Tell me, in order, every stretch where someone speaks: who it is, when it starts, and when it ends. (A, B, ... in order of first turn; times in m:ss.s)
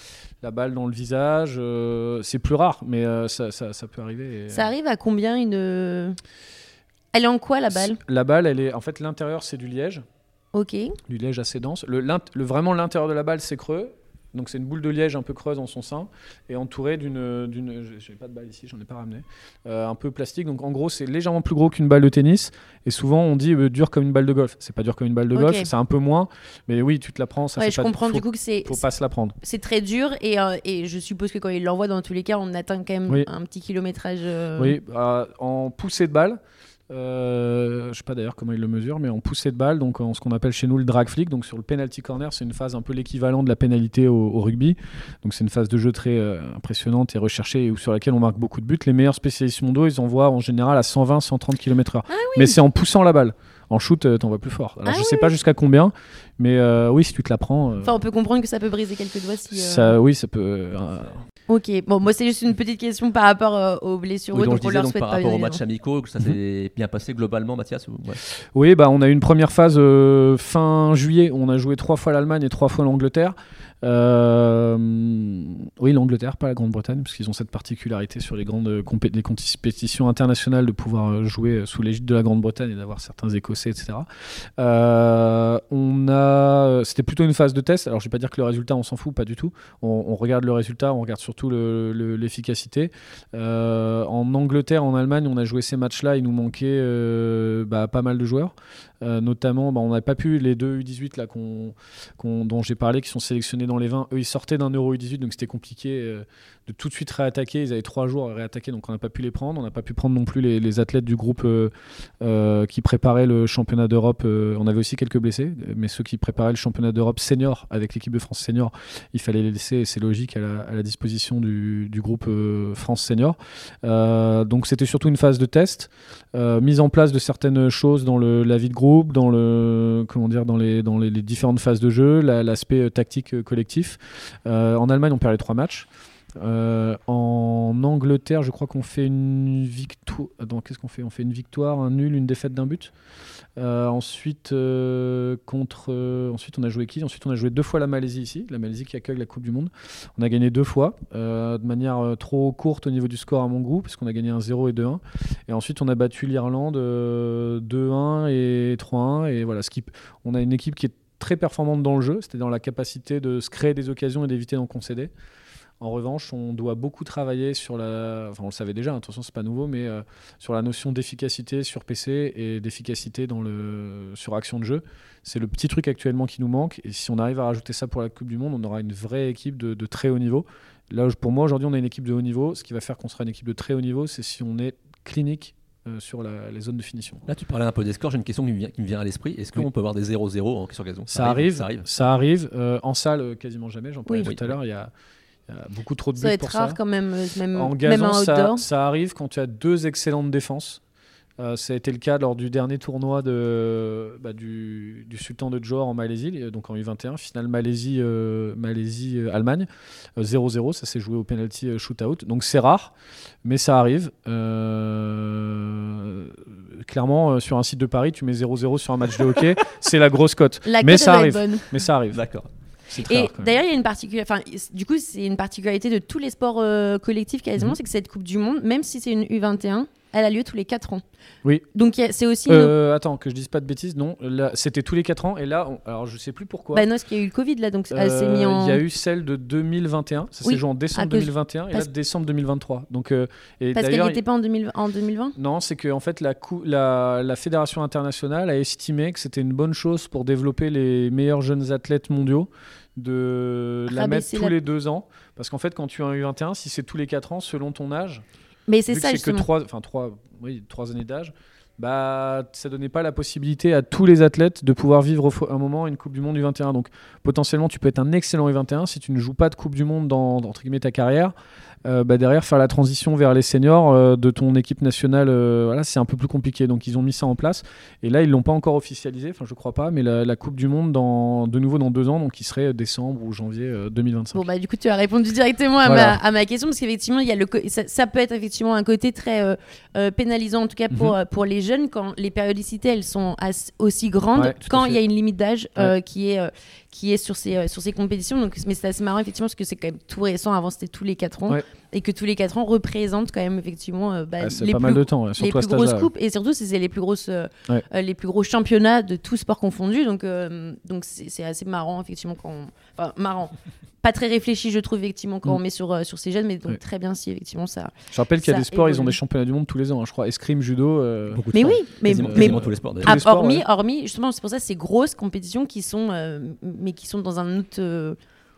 0:00.4-0:04.7 A
0:04.5-0:06.2 B
0:07.1-0:08.0 B
0:07.7-0:10.0 A
0:10.5-0:11.0 B
0:11.1-0:29.4 A
0:25.4-0:25.7 B
0:27.6-0:28.8 B
0:29.4-0:34.8 B
0:34.6-0:36.4 A
0:36.9-0:58.0 A
0:52.1-0:52.6 B
0:54.9-0:55.3 B
0:57.8-1:00.0 B
0:59.5-1:01.2 A
1:01.5-1:05.6 B
1:04.3-1:08.2 C
1:08.5-1:24.1 A
1:24.6-2:22.9 A
2:23.6-2:45.1 A
2:45.8-3:07.2 A
3:07.3-3:11.9 C
3:11.1-3:14.9 A
3:14.2-3:14.6 C
3:15.5-3:16.8 A
3:16.2-3:18.6 B
3:17.5-3:20.8 A
3:21.4-3:32.9 A
3:33.4-3:42.2 A
3:40.7-3:41.7 B
3:42.1-3:42.5 C
3:42.9-3:43.6 A
3:43.1-3:51.0 B
3:51.7-3:52.7 B
3:52.5-3:56.8 A
3:56.7-3:58.8 B
3:57.9-4:04.2 A
4:00.4-4:01.9 B
4:03.8-4:05.4 B
4:05.4-4:18.2 A
4:13.9-4:14.6 B
4:18.7-4:19.5 B
4:18.9-4:31.3 A
4:31.8-4:44.4 A
4:44.3-5:19.2 B
4:45.8-4:46.2 A
4:54.4-4:55.0 A
5:04.4-5:06.1 A
5:18.1-5:21.4 A
5:21.3-5:23.2 C
5:21.5-5:28.2 B
5:22.1-5:23.6 A